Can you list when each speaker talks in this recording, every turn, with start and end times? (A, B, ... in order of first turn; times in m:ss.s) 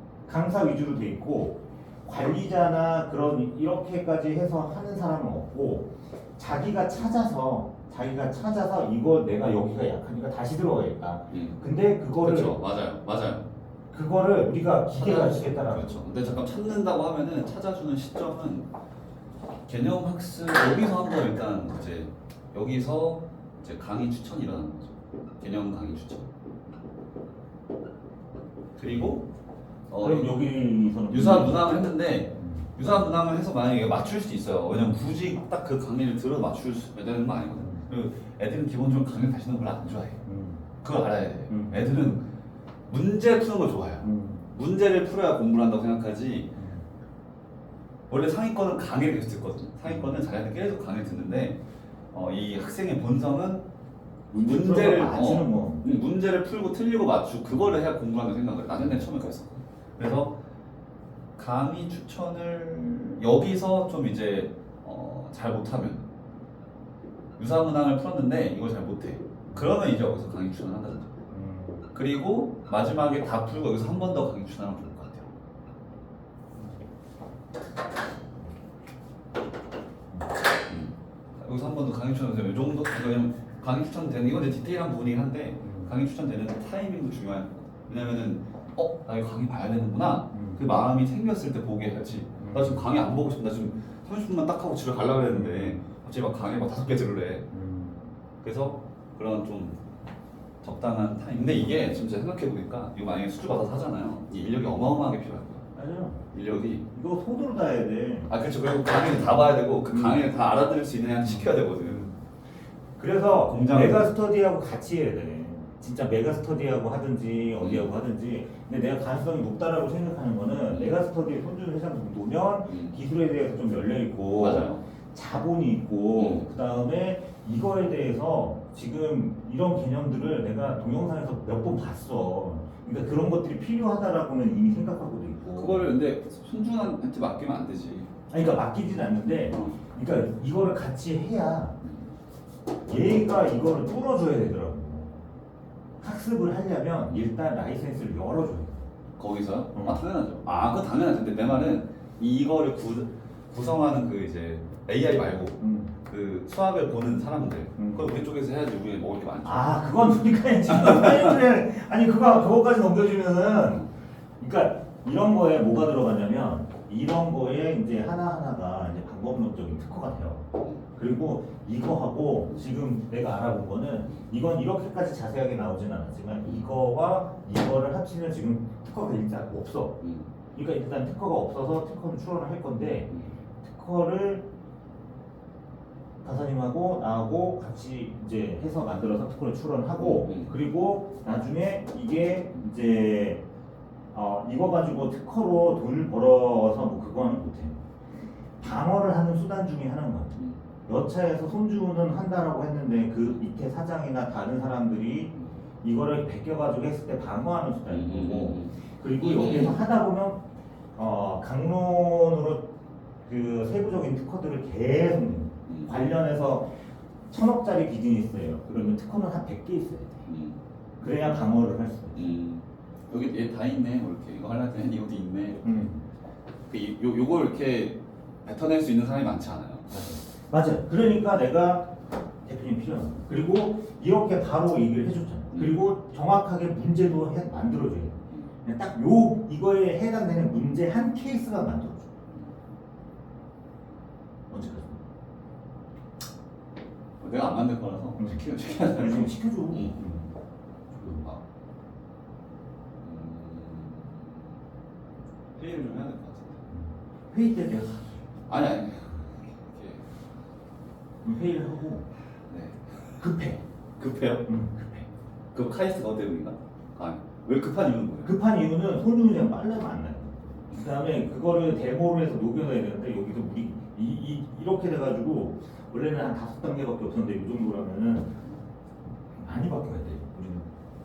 0:00.3-0:12.6 A
0:11.3-0:11.6 B
0:12.2-0:13.4 B
0:13.9-0:16.1 A
0:14.9-0:18.7 B
0:19.7-0:26.3 B
0:28.8-0:29.2 B
0:29.9-0:30.4 B
0:30.0-0:31.7 A
0:31.1-0:40.2 B
0:32.4-0:33.0 A
0:37.6-0:37.8 A
0:40.2-0:40.6 A
0:40.8-0:42.2 B
0:42.9-0:46.5 B
0:44.0-0:44.5 A
0:46.5-0:46.8 A
0:48.1-0:51.6 B
0:49.8-0:50.2 A
0:52.1-0:53.6 B
0:54.3-0:55.8 A
0:54.4-1:00.3 B
1:01.4-1:06.0 B
1:07.4-1:11.1 B
1:09.5-1:09.8 A
1:11.3-1:11.9 A
1:11.9-1:15.3 B
1:20.7-1:37.5 B
1:25.6-1:25.9 A
1:30.3-1:30.6 A
1:32.4-1:32.8 A
1:35.3-1:35.8 A
1:37.5-1:38.1 A
1:38.4-1:39.8 B
1:40.6-1:45.6 B
1:45.7-1:46.2 A
1:46.3-1:46.8 B
1:46.9-1:48.3 A
1:48.3-1:52.1 B
1:49.8-1:50.2 A
1:51.2-1:52.2 A
1:53.0-2:16.0 A
1:53.3-1:54.0 B
1:57.6-1:57.9 B
2:02.7-2:02.9 B
2:04.4-2:04.8 B
2:06.2-2:06.4 B
2:15.5-2:18.1 B
2:18.3-2:21.7 A
2:19.5-2:19.8 B
2:22.8-2:25.2 A
2:26.0-2:28.8 A
2:29.2-2:41.3 B
2:29.7-2:30.0 A
2:35.6-2:35.9 A
2:37.8-2:38.1 A
2:39.4-2:43.9 A
2:44.4-3:00.0 A
3:00.0-3:00.3 B
3:00.5-3:04.5 A
3:06.2-3:13.4 A
3:10.0-3:10.5 B
3:14.1-3:17.8 A
3:18.6-3:20.4 A
3:20.9-3:30.4 A
3:27.9-3:29.8 B
3:30.9-3:32.7 A
3:33.2-3:36.7 A
3:35.7-3:35.9 B
3:37.3-3:40.2 A
3:40.2-3:40.6 B
3:41.0-3:42.2 A
3:42.1-3:45.6 B
3:45.6-3:46.0 A
3:46.7-3:50.1 B
3:49.9-3:51.9 A
3:52.4-4:02.1 A
4:04.5-4:05.0 A
4:07.2-4:10.0 B
4:08.2-4:10.3 A
4:10.9-4:11.4 B
4:13.0-4:14.4 B
4:15.6-4:16.6 B
4:16.7-4:18.0 A
4:18.5-4:20.0 B
4:21.2-4:22.0 A
4:22.5-4:23.2 B
4:23.2-4:23.6 A
4:24.0-4:24.5 B
4:24.4-4:25.0 A
4:25.5-4:28.4 B
4:28.2-4:38.3 A
4:39.3-4:40.7 A